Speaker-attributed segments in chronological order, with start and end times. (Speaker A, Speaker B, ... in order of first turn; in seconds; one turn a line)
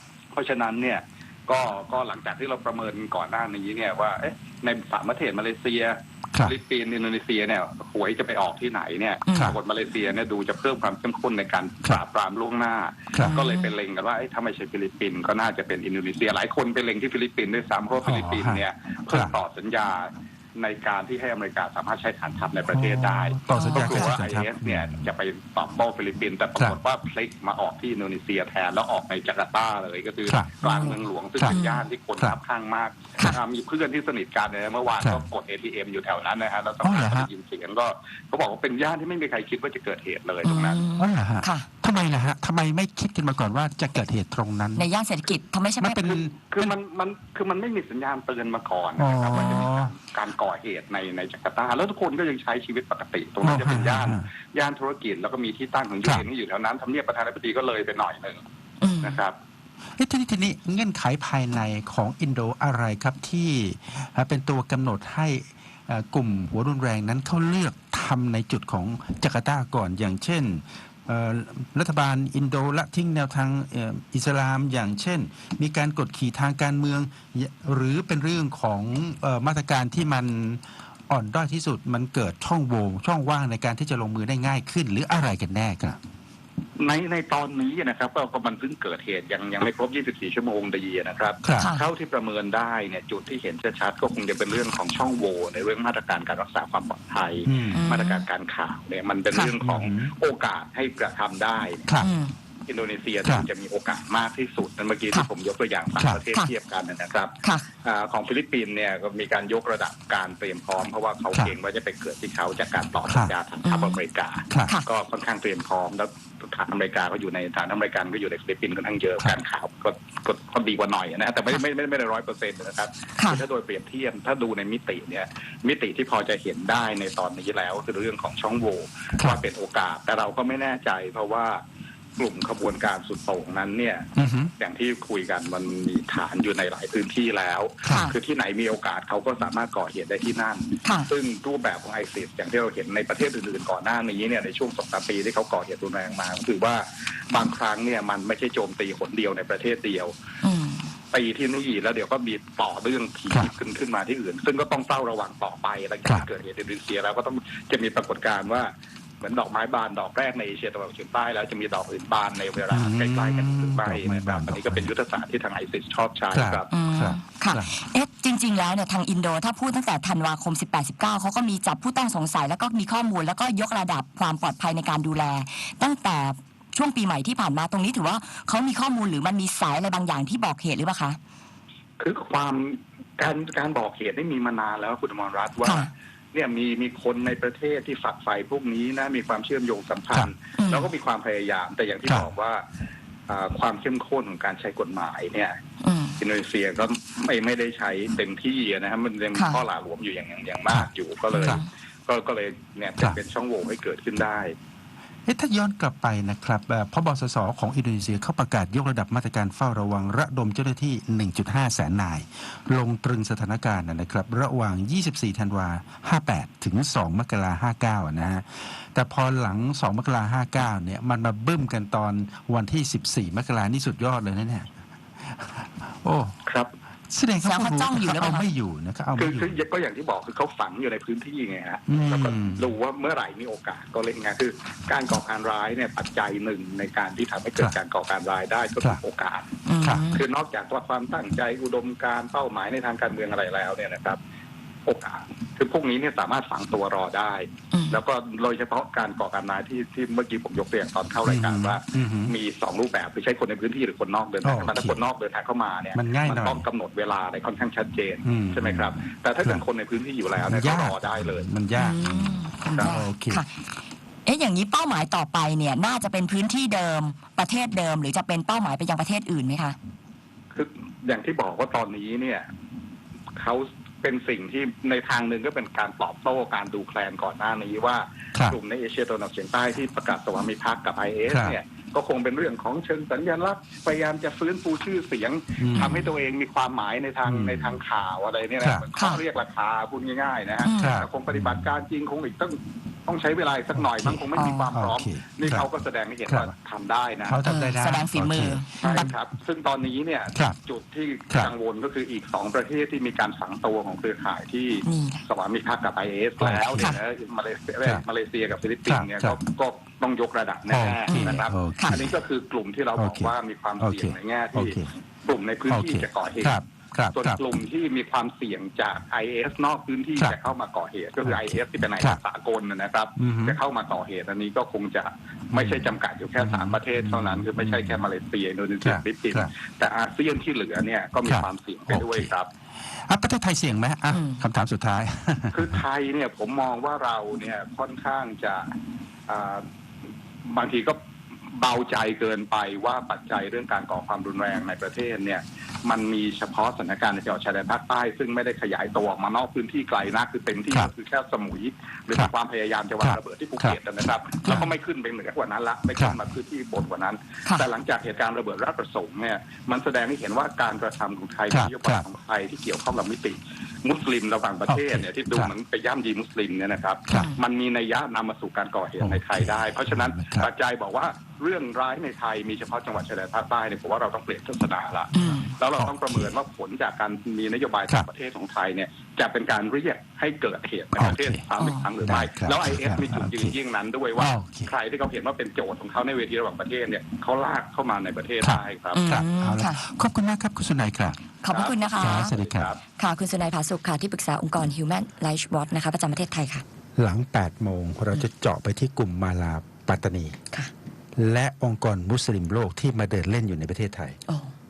Speaker A: 0.3-40.8
Speaker B: 9.3-9.6
Speaker B: 13.2-13.8
Speaker C: 18.0-19.4
Speaker C: 22.7-25.1
Speaker B: 23.5-24.1
Speaker C: 30.3-30.6
Speaker B: 30.6-31.0
Speaker B: 31.5-31.9
Speaker C: 36.8-37.3
Speaker B: 40.4-41.7
Speaker C: 41.0-44.9
Speaker B: 44.8-46.2
Speaker C: 45.8-46.8
Speaker A: 46.5-58.4
Speaker C: 49.0-49.9
Speaker B: 49.3-49.7
Speaker C: 53.4-54.3
Speaker B: 58.8-59.2
Speaker A: 59.0-59.4
Speaker C: 60.0-86.0
Speaker A: 86.8-101.9
Speaker C: 91.4-91.7
Speaker B: 91.6-91.8
Speaker C: 97.5-97.9
Speaker B: 97.7-98.3
Speaker C: 99.6-100.1
Speaker B: 102.0-102.3
Speaker A: 102.7-131.6
Speaker B: 107.4-107.7
Speaker C: 113.1-113.3
Speaker B: 113.6-114.0
Speaker A: 132.2-150.1
Speaker C: 134.2-134.5
Speaker C: 137.8-138.1
Speaker B: 137.9-138.1
Speaker B: 140.8-141.1
Speaker B: 150.4-150.9
Speaker A: 151.1-166.7
Speaker C: 162.7-164.9
Speaker C: 166.3-167.8
Speaker B: 166.7-181.2
Speaker A: 182.0-192.6
Speaker B: 185.6-185.9
Speaker B: 190.6-190.9
Speaker A: 193.3-195.6
Speaker B: 195.8-196.2
Speaker A: 196.2-204.6
Speaker B: 199.3-199.6
Speaker B: 201.3-201.7
Speaker C: 205.3-226.4
Speaker A: 226.5-226.7
Speaker C: 227.1-229.5
Speaker B: 227.4-228.5
Speaker A: 229.2-239.5
Speaker C: 231.9-232.7
Speaker B: 239.7-240.2
Speaker C: 239.8-240.1
Speaker A: 240.1-244.2
Speaker A: 244.9-261.5
Speaker B: 247.7-248.0
Speaker C: 251.2-252.3
Speaker C: 254.4-255.0
Speaker C: 255.9-256.6
Speaker C: 258.2-259.6
Speaker C: 260.4-263.4
Speaker B: 261.8-263.5
Speaker B: 264.3-269.8
Speaker A: 270.5-272.5
Speaker A: 273.4-297.4
Speaker C: 281.3-281.6
Speaker C: 285.6-286.0
Speaker B: 285.7-286.1
Speaker C: 287.2-287.8
Speaker C: 288.6-288.9
Speaker B: 289.0-289.2
Speaker B: 290.6-291.0
Speaker C: 290.7-291.6
Speaker C: 293.8-295.7
Speaker B: 294.3-294.7
Speaker C: 297.2-299.1
Speaker B: 297.4-299.1
Speaker A: 298.8-316.6
Speaker B: 304.9-305.2
Speaker C: 306.4-306.9
Speaker C: 308.9-309.4
Speaker C: 310.7-312.1
Speaker B: 311.1-312.0
Speaker C: 313.0-314.9
Speaker C: 315.7-317.4
Speaker A: 317.1-332.5
Speaker C: 321.3-322.2
Speaker C: 323.2-323.6
Speaker C: 325.5-328.1
Speaker C: 328.8-329.5
Speaker C: 331.3-332.3
Speaker C: 332.8-335.8
Speaker B: 334.1-334.4
Speaker A: 335.5-338.7
Speaker A: 339.3-339.7
Speaker A: 340.5-341.0
Speaker A: 341.5-389.0
Speaker C: 353.0-353.8
Speaker C: 361.5-362.1
Speaker C: 364.7-365.5
Speaker B: 367.1-367.4
Speaker C: 369.0-370.5
Speaker C: 375.1-376.3
Speaker B: 375.1-375.5
Speaker C: 381.0-381.4
Speaker B: 381.6-381.9
Speaker C: 382.0-383.5
Speaker C: 384.2-384.7
Speaker C: 388.4-391.2
Speaker B: 388.9-389.8
Speaker B: 391.4-392.3
Speaker A: 391.5-392.8
Speaker C: 391.9-392.7
Speaker B: 393.0-396.6
Speaker C: 397.0-400.4
Speaker C: 401.2-404.2
Speaker B: 404.3-404.5